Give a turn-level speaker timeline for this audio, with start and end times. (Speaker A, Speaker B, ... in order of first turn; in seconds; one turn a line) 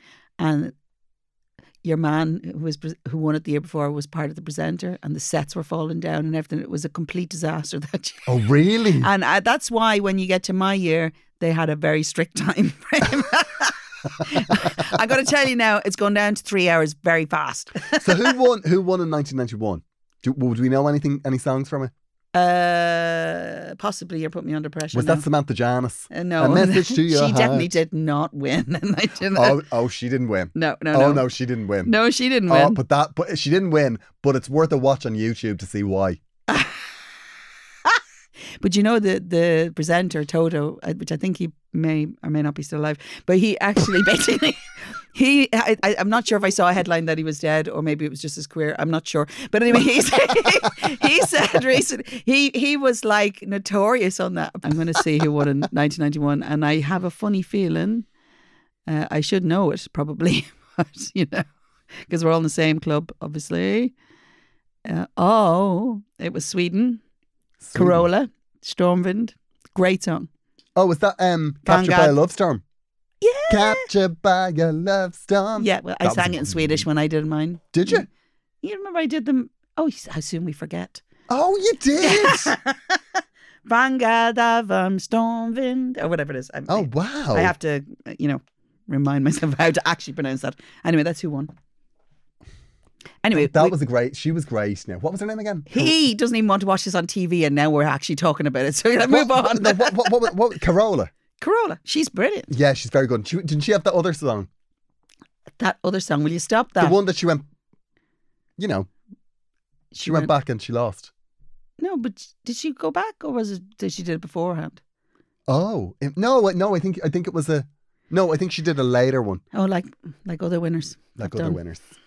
Speaker A: 0.4-0.8
Speaker A: 1.8-8.4
Speaker B: 8.3-9.1
Speaker A: 9.0-18.4
Speaker B: 17.9-21.9
Speaker A: 22.3-25.3
Speaker B: 24.9-27.7
Speaker A: 26.1-29.6
Speaker B: 29.3-32.0
Speaker A: 30.6-31.3
Speaker A: 31.8-32.8
Speaker B: 32.5-36.2
Speaker A: 36.5-36.9
Speaker A: 38.6-58.1
Speaker A: 58.9-63.9
Speaker A: 64.8-67.0
Speaker B: 67.6-68.1
Speaker A: 67.7-70.3
Speaker B: 70.8-72.6
Speaker A: 71.7-72.2
Speaker A: 73.2-73.9
Speaker B: 73.5-76.9
Speaker A: 75.6-78.1
Speaker B: 77.7-78.1
Speaker A: 78.6-81.0
Speaker B: 81.3-82.5
Speaker A: 82.0-91.5
Speaker B: 86.7-87.5
Speaker A: 93.2-93.8
Speaker B: 93.3-96.0
Speaker A: 95.7-100.2
Speaker B: 99.1-101.1
Speaker A: 101.4-102.5
Speaker B: 102.5-104.5
Speaker A: 105.6-107.0
Speaker B: 106.8-107.5
Speaker B: 108.6-108.9
Speaker A: 109.9-110.3
Speaker B: 110.0-111.1
Speaker A: 111.8-114.8
Speaker B: 115.5-119.4
Speaker A: 119.5-121.6
Speaker B: 121.2-121.9